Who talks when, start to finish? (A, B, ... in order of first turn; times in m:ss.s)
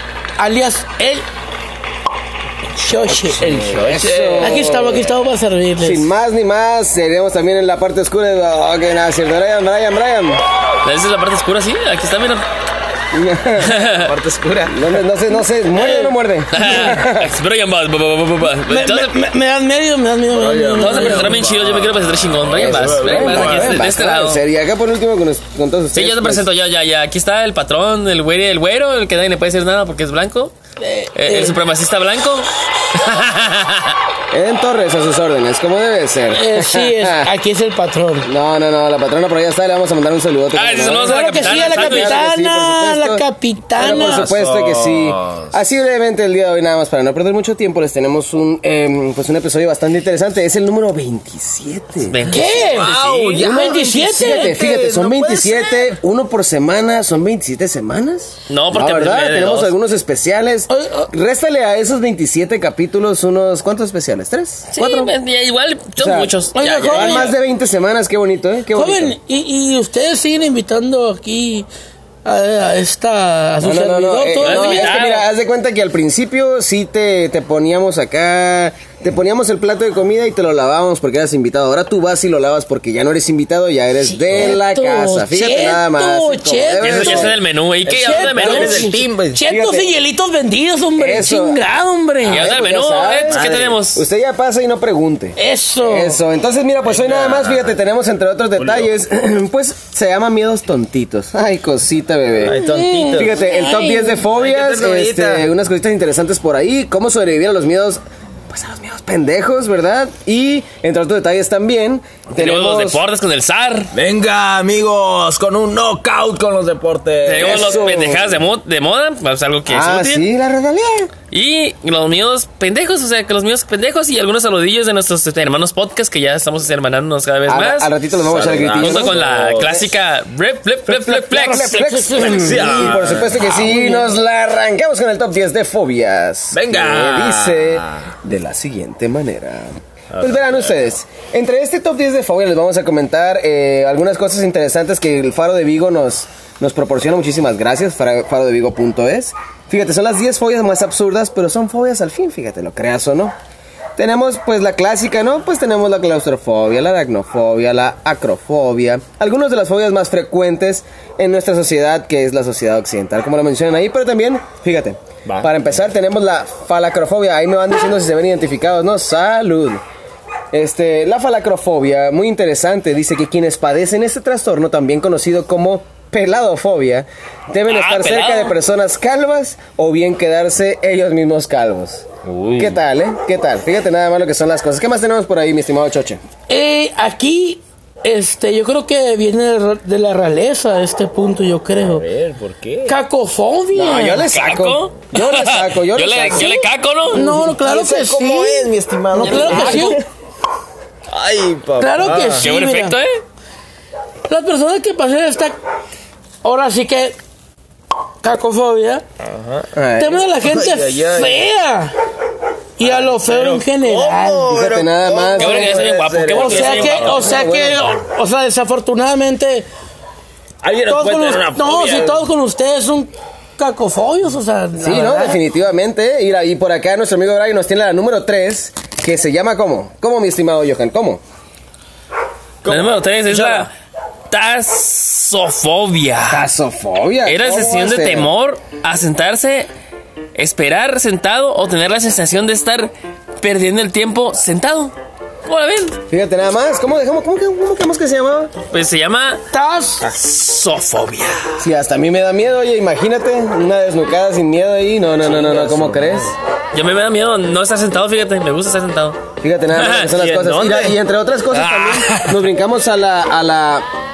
0:00.4-0:01.2 A
0:02.8-0:03.5 A
0:03.3-0:04.6 B
0:03.5-0:05.1 C
0:04.4-0:06.1 A
0:05.8-0:10.4 C
0:10.8-0:12.4 D
0:13.1-0:13.9 C
0:13.6-0:14.1 D
0:13.9-0:14.8 B
0:14.7-0:17.3 C
0:16.5-0:19.1 D
0:18.7-0:21.3 A
0:20.3-0:23.9 B
0:20.8-0:24.4 D
0:22.6-0:26.4 C
0:26.0-0:30.6 D
0:30.8-0:31.6 A
0:31.2-0:34.0 D
0:34.3-0:37.3 C
0:36.3-0:38.3 A
0:38.2-0:43.2 C
0:40.5-0:42.2 D
0:41.0-0:44.3 A
0:43.8-0:52.2 C
0:44.0-0:45.5 B
0:52.0-0:53.4 D
0:52.3-0:54.6 A
0:52.5-0:55.9 B
0:53.2-1:05.1 C
0:58.5-0:59.7 D
1:00.7-1:01.1 A
1:04.7-1:07.3 D
1:06.0-1:06.3 C
1:06.6-1:07.3 A
1:06.8-1:09.2 C
1:08.7-1:11.7 A
1:12.2-1:14.9 A
1:13.6-1:27.4 C
1:14.4-1:15.3 D
1:24.0-1:27.3 A
1:26.8-1:28.9 D
1:27.9-1:32.4 A
1:27.9-1:29.4 B
1:29.4-1:29.9 C
1:31.0-1:31.6 C
1:32.3-1:42.6 C
1:32.3-1:34.0 D
1:33.3-1:33.8 B
1:35.4-1:36.2 A
1:36.9-1:37.7 B
1:38.6-1:38.9 B
1:42.4-1:43.7 B
1:42.5-1:44.2 A
1:43.2-1:53.0 C
1:44.2-1:45.5 B
1:52.4-1:53.9 D
1:53.9-1:57.9 B
1:57.2-2:00.2 D
1:57.4-1:58.4 C
1:59.7-2:01.1 C
2:01.3-2:07.9 D
2:07.5-2:09.9 C
2:08.2-2:09.8 B
2:08.8-2:11.8 D
2:10.9-2:33.3 C
2:11.5-2:14.1 A
2:12.2-2:13.7 B
2:16.5-2:18.1 B
2:20.1-2:20.7 B
2:34.0-2:49.8 C
2:45.3-2:45.5 B
2:50.5-3:06.2 C
2:57.7-2:58.6 D
3:02.2-3:02.8 B
3:06.5-3:12.1 A
3:11.8-3:13.0 B
3:12.9-3:14.2 A
3:13.7-3:16.6 C
3:14.3-3:17.2 D
3:16.4-3:20.0 A
3:17.1-3:20.1 C
3:19.2-3:20.0 D
3:19.5-3:19.8 B
3:21.1-3:22.4 B
3:21.8-3:23.0 A
3:22.4-3:23.2 D
3:24.3-3:25.6 A
3:26.4-3:27.2 A
3:28.2-3:29.0 A
3:29.2-3:29.7 B
3:29.8-3:30.2 C
3:30.0-3:32.0 A
3:30.4-3:31.5 B
3:32.8-3:34.5 A
3:32.8-3:37.8 B
3:34.5-3:37.8 C
3:35.4-3:37.2 D
3:36.4-3:39.7 A
3:40.6-3:42.2 B
3:40.9-3:45.4 A
3:44.8-3:51.2 C
3:52.6-3:53.7 B
3:52.7-3:53.7 D
3:54.3-3:56.5 D
3:56.3-3:58.3 C
3:57.2-3:59.7 D
4:00.4-4:04.9 D
4:05.5-4:06.0 D
4:06.1-4:08.5 C
4:08.7-4:09.4 D
4:09.5-4:10.1 A
4:10.0-4:11.5 D
4:11.6-4:16.4 C
4:15.2-4:16.3 B
4:16.7-4:19.2 D
4:19.4-4:23.9 C
4:19.8-4:20.2 D
4:20.1-4:21.0 B
4:21.5-4:22.4 D